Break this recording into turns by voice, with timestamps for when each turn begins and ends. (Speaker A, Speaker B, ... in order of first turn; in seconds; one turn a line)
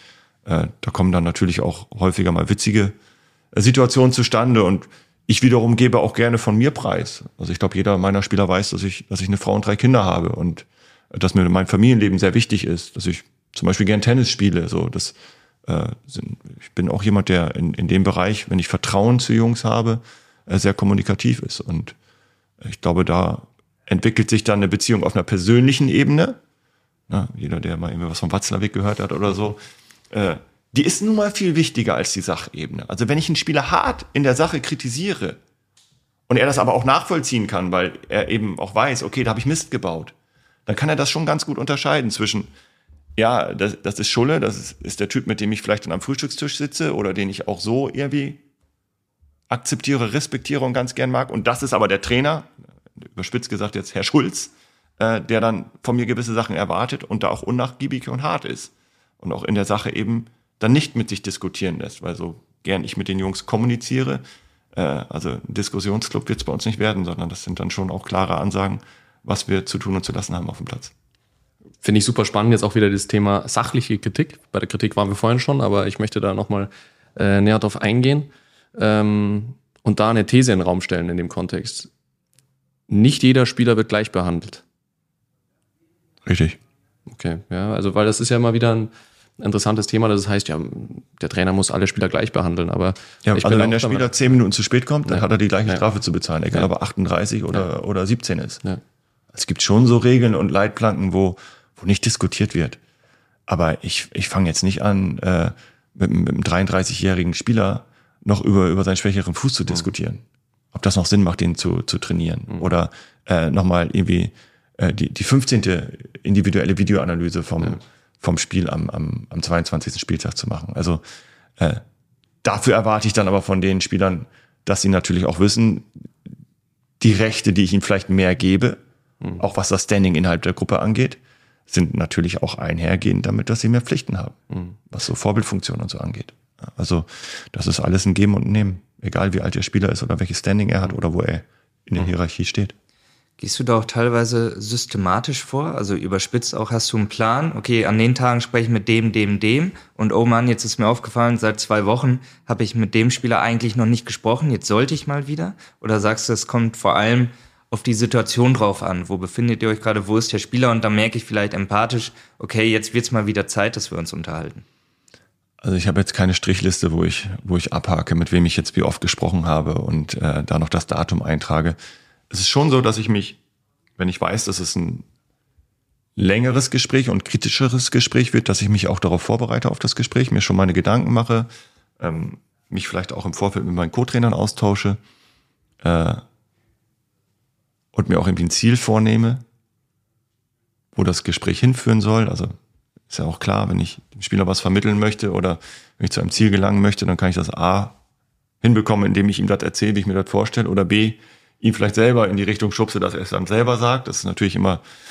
Speaker A: 0.5-3.0
Speaker A: 3.5-15.1
Speaker A: 15.7-21.9
Speaker A: 22.6-26.4
Speaker A: 27.1-35.4
Speaker A: 36.3-40.1
Speaker A: 40.7-42.5
Speaker A: 43.2-48.4
Speaker A: 49.5-52.5
Speaker A: 53.0-64.2
Speaker A: 64.8-70.9
Speaker B: 71.8-81.9
Speaker B: 82.9-84.6
Speaker A: 86.3-86.6
Speaker B: 87.1-94.1
Speaker A: 93.2-98.6
Speaker B: 95.1-95.8
Speaker A: 99.3-102.8
Speaker A: 103.5-121.0
Speaker A: 121.6-121.8
Speaker A: 122.4-126.1
Speaker A: 127.0-128.8
Speaker A: 129.4-134.4
Speaker A: 134.9-142.7
Speaker C: 143.4-164.6
Speaker A: 165.6-171.8
Speaker A: 172.3-173.4
Speaker A: 174.0-175.1
Speaker A: 176.2-181.5
Speaker A: 182.0-185.0
Speaker A: 185.8-186.2
Speaker A: 187.9-189.4
Speaker A: 190.9-192.6
Speaker A: 193.1-198.0
Speaker A: 198.6-204.8